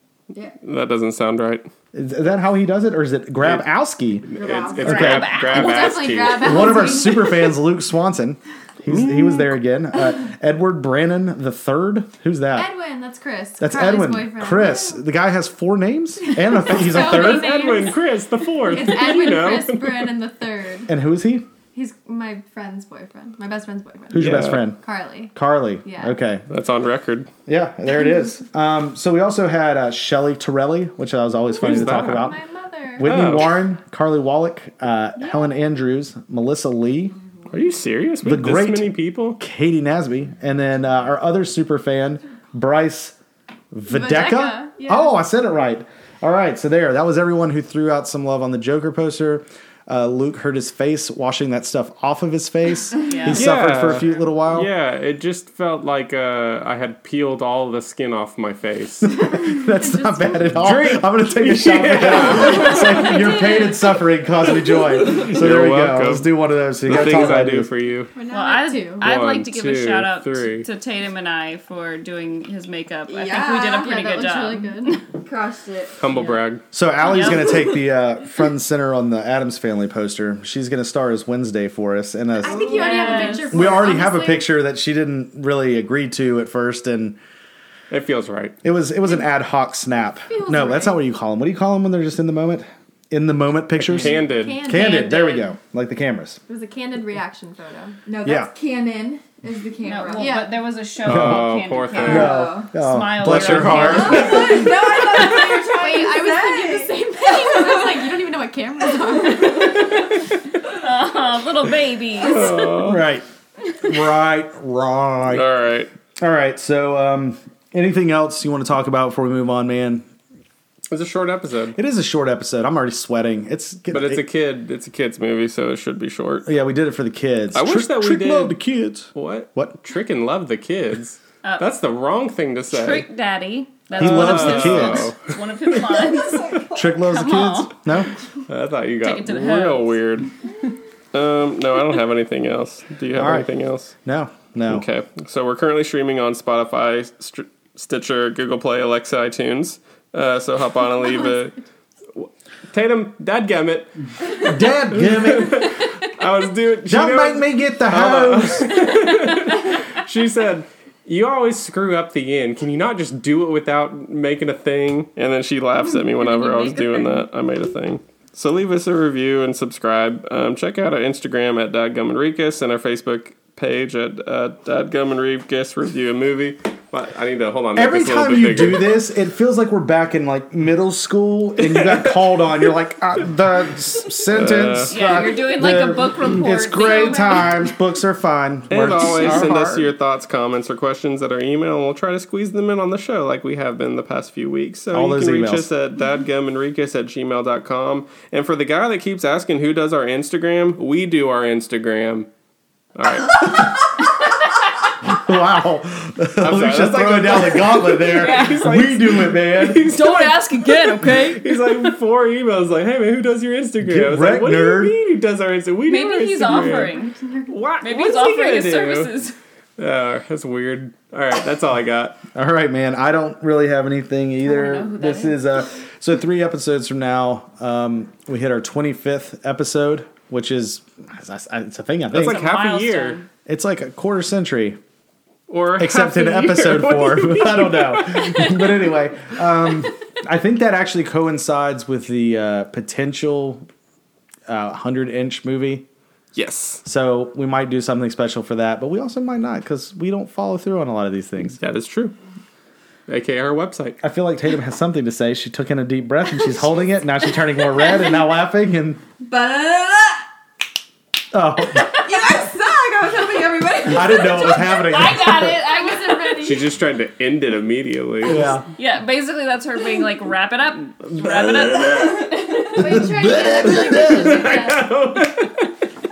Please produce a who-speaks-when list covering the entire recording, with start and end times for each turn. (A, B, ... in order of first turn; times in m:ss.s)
0:00.6-0:01.7 A
0:01.9-0:04.3 B
0:04.3-0:07.0 A
0:04.3-0:05.2 C
0:04.8-0:05.3 B
0:04.8-0:05.8 D
0:05.3-0:07.6 E
0:06.4-0:12.7 B
0:08.9-0:09.5 A
0:12.5-0:15.0 E
0:13.6-0:17.8 B
0:16.5-0:18.0 E
0:16.8-0:20.2 A
0:18.6-0:20.9 E
0:20.9-0:21.5 B
0:21.7-0:26.2 E
0:24.1-0:24.8 B
0:24.1-0:24.7 A
0:25.3-0:26.4 B
0:26.5-0:27.3 A
0:27.5-0:32.4 B
0:31.6-0:32.3 A
0:31.7-0:33.2 E
0:33.0-0:37.2 B
0:33.0-0:33.6 A
0:37.5-0:39.4 A
0:38.2-0:43.1 B
0:43.7-0:54.7 B
0:43.9-0:45.2 E
0:53.0-0:53.5 D
0:53.3-0:59.1 A
0:59.0-1:07.7 B
0:59.2-1:00.5 E
1:00.6-1:03.1 A
1:05.0-1:06.3 A
1:06.8-1:08.1 A
1:08.1-1:09.1 E
1:08.3-1:15.0 D
1:09.0-1:10.7 A
1:13.1-1:14.1 C
1:13.8-1:15.0 E
1:15.0-1:16.0 C
1:16.0-1:16.6 A
1:16.1-1:16.4 D
1:16.7-1:22.8 B
1:17.1-1:17.5 D
1:22.4-1:24.5 E
1:22.5-1:23.5 C
1:22.7-1:23.7 D
1:23.5-1:27.2 B
1:27.9-1:28.6 A
1:28.6-1:36.4 B
1:30.3-1:31.0 E
1:33.8-1:34.7 A
1:34.2-1:35.5 E
1:36.5-1:38.0 E
1:38.0-1:40.5 C
1:38.2-1:38.5 B
1:39.8-1:44.7 D
1:41.0-1:42.4 A
1:41.0-1:44.7 B
1:42.0-1:42.7 C
1:43.2-1:44.4 A
1:44.0-1:48.0 C
1:44.4-1:50.1 E
1:49.6-1:52.7 D
1:52.2-1:53.0 A
1:52.8-1:53.2 B
1:53.8-1:55.5 B
1:55.3-1:55.9 A
1:56.2-2:00.0 B
2:00.9-2:01.8 A
2:01.7-2:04.2 B
2:03.9-2:06.5 A
2:06.4-2:09.8 B
2:07.5-2:08.6 A
2:09.1-2:13.0 A
2:12.7-2:17.8 D
2:14.0-2:16.2 A
2:14.0-2:15.1 B
2:16.1-2:16.8 C
2:16.7-2:18.1 B
2:18.5-2:20.3 A
2:19.0-2:20.0 D
2:21.1-2:23.9 A
2:23.2-2:23.5 B
2:24.0-2:24.8 B
2:24.7-2:31.6 A
2:32.1-2:59.0 A
2:34.4-2:35.7 B
2:36.9-2:38.7 B
2:46.1-2:47.2 D
2:57.7-3:09.8 B
3:01.6-3:02.7 A
3:04.3-3:05.2 A
3:04.9-3:07.7 D
3:08.7-3:22.3 A
3:09.0-3:09.8 D
3:14.9-3:15.7 B
3:22.9-3:23.9 A
3:25.0-3:30.0 B
3:26.4-3:36.9 A
3:28.1-3:28.7 D
3:29.8-3:31.8 D
3:33.8-3:35.0 B
3:35.9-3:37.1 D
3:36.4-3:37.6 E
3:37.5-3:39.1 A
3:37.8-3:39.4 D
3:39.8-3:42.2 A
3:42.3-3:52.4 B
3:44.4-3:45.4 D
3:52.1-3:53.2 A
3:52.2-3:53.3 D
3:53.4-3:54.8 B
3:55.5-3:58.8 A
3:55.8-4:03.6 B
4:04.5-4:05.8 B
4:06.3-4:06.8 A
4:06.8-4:11.6 B
4:11.6-4:12.1 A
4:13.1-4:14.0 A
4:14.0-4:19.0 B
4:19.2-4:20.2 C
4:21.3-4:21.9 B
4:21.9-4:24.7 C
4:23.8-4:25.6 B
4:24.4-4:26.6 D
4:25.5-4:26.7 E
4:26.4-4:28.5 A
4:28.2-4:28.6 B
4:28.8-4:33.0 D
4:31.2-4:32.2 A
4:31.9-4:32.3 C
4:32.8-4:34.9 E
4:32.8-4:34.5 B
4:33.6-4:35.7 A